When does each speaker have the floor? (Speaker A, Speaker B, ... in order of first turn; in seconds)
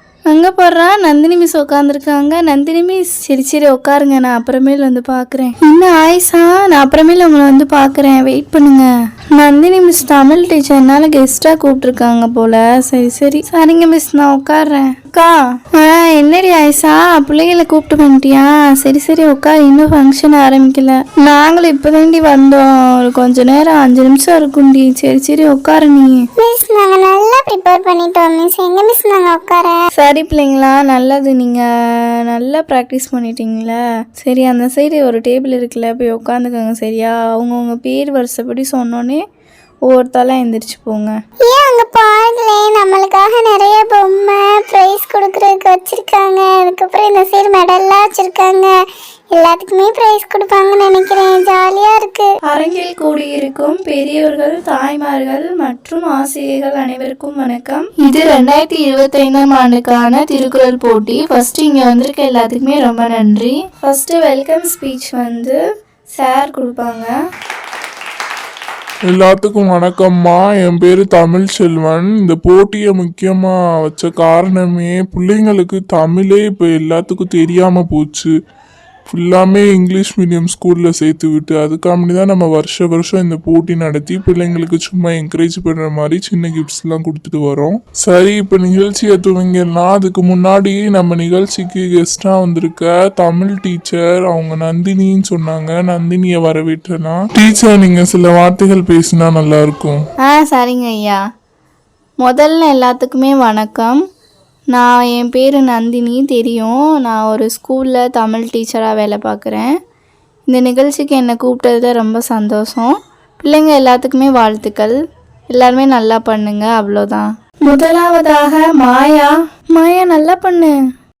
Speaker A: 0.3-26.2, 29.9-39.2, 39.9-41.1, 52.4-65.6, 66.1-67.1, 100.3-101.2, 102.2-104.0, 104.7-109.7, 110.5-115.0, 115.5-120.7
Speaker B: 26.4-29.8, 41.5-48.7, 49.4-52.3
Speaker C: 69.1-78.3, 79.1-100.0